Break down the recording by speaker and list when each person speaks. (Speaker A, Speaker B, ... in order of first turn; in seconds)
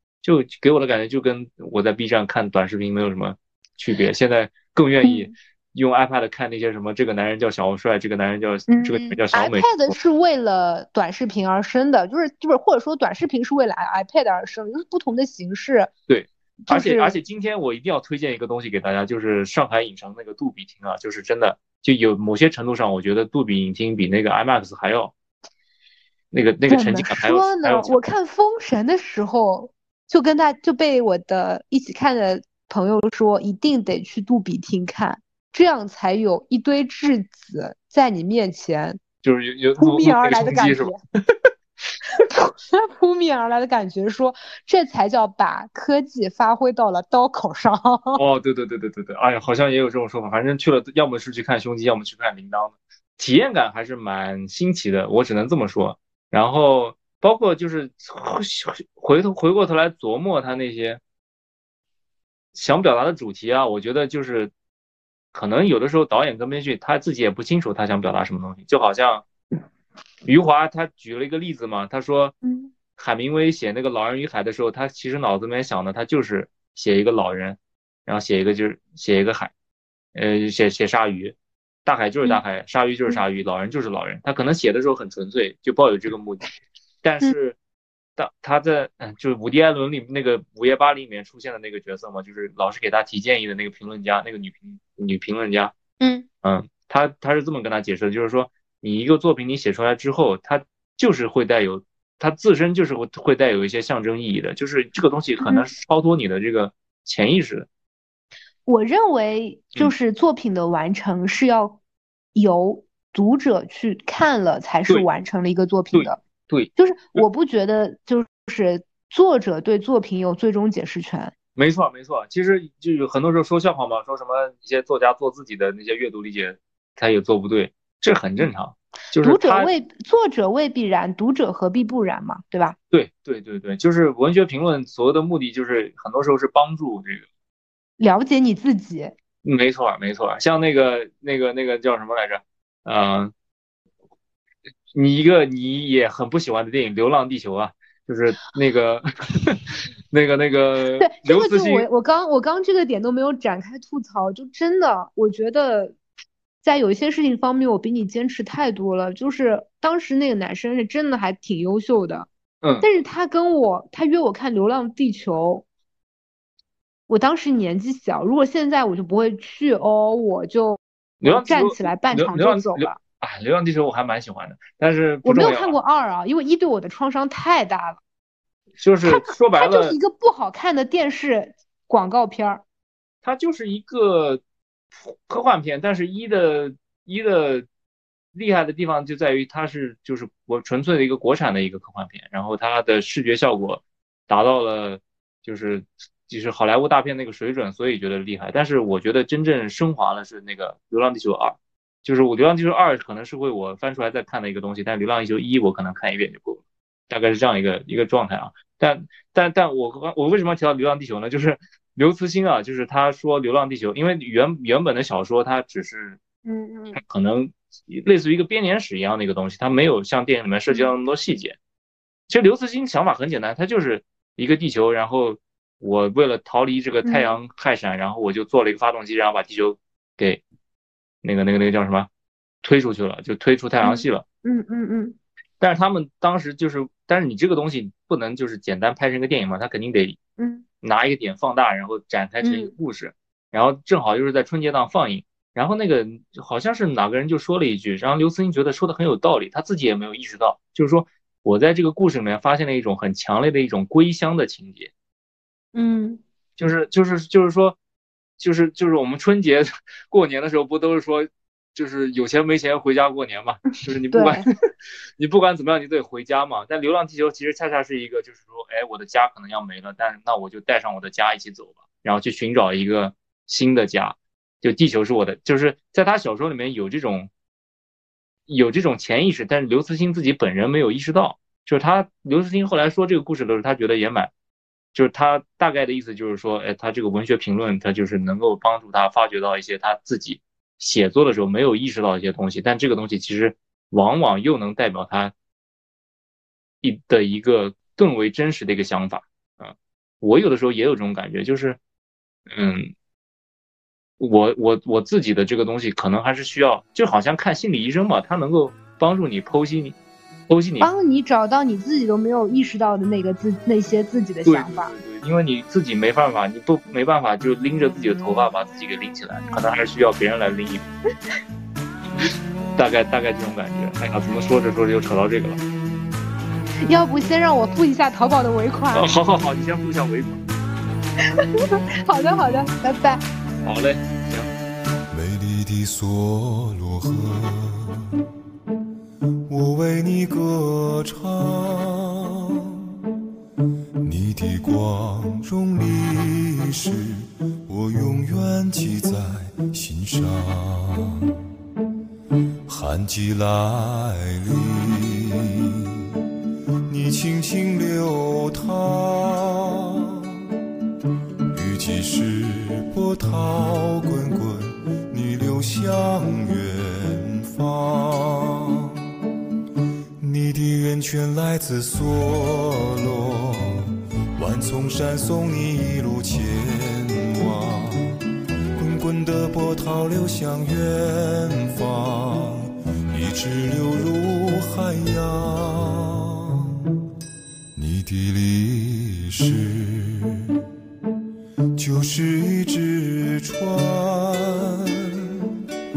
Speaker A: 0.2-9.9, 16.1-25.1, 26.3-28.0, 39.2-41.4, 48.2-61.0, 62.5-64.5, 65.3-69.3, 70.2-72.3, 73.0-79.5, 80.1-86.5, 87.0-87.6, 88.2-95.7, 96.4-107.7, 115.9-117.2, 121.6-129.7, 132.9-137.3, 139.4-143.3, 144.9-151.9, 171.2-175.8, 178.8-180.0, 183.2-184.4, 185.0-187.7, 188.3-216.2, 216.9-221.6, 222.3-230.4, 231.2-232.1, 232.6-234.2, 235.6-240.2, 240.8-254.9, 256.6-257.8, 258.4-264.5, 265.2-277.3, 278.5-284.3, 284.9-295.3, 296.8-301.8, 302.5-302.9, 304.2-310.0, 310.5-310.9, 314.4-320.8, 322.2-325.6, 328.9-330.4, 333.6-334.5
Speaker B: 5.0-5.3, 8.7-15.9, 16.7-17.2, 26.7-39.0, 39.8-41.0, 42.3-48.2, 72.4-72.7, 96.0-96.3, 105.4-105.7, 108.7-111.8, 112.3-116.2, 116.8-121.3, 129.2-132.8, 138.0-139.1, 151.0-156.0, 156.6-162.3, 162.8-165.7, 167.1-173.0, 175.2-178.0, 179.0-182.6, 216.4-217.0, 220.7-220.9, 227.0-227.4, 233.8-235.2, 240.4-240.7, 242.4-242.7, 255.7-256.2, 264.1-264.5, 310.8-314.9, 326.9-329.1, 331.4-333.2
Speaker C: 335.1-338.1, 339.5-342.7, 344.0-351.3, 352.7-355.7, 356.9-360.2, 361.5-368.9, 370.2-378.2, 378.8-386.7, 387.8-390.5, 391.8-395.3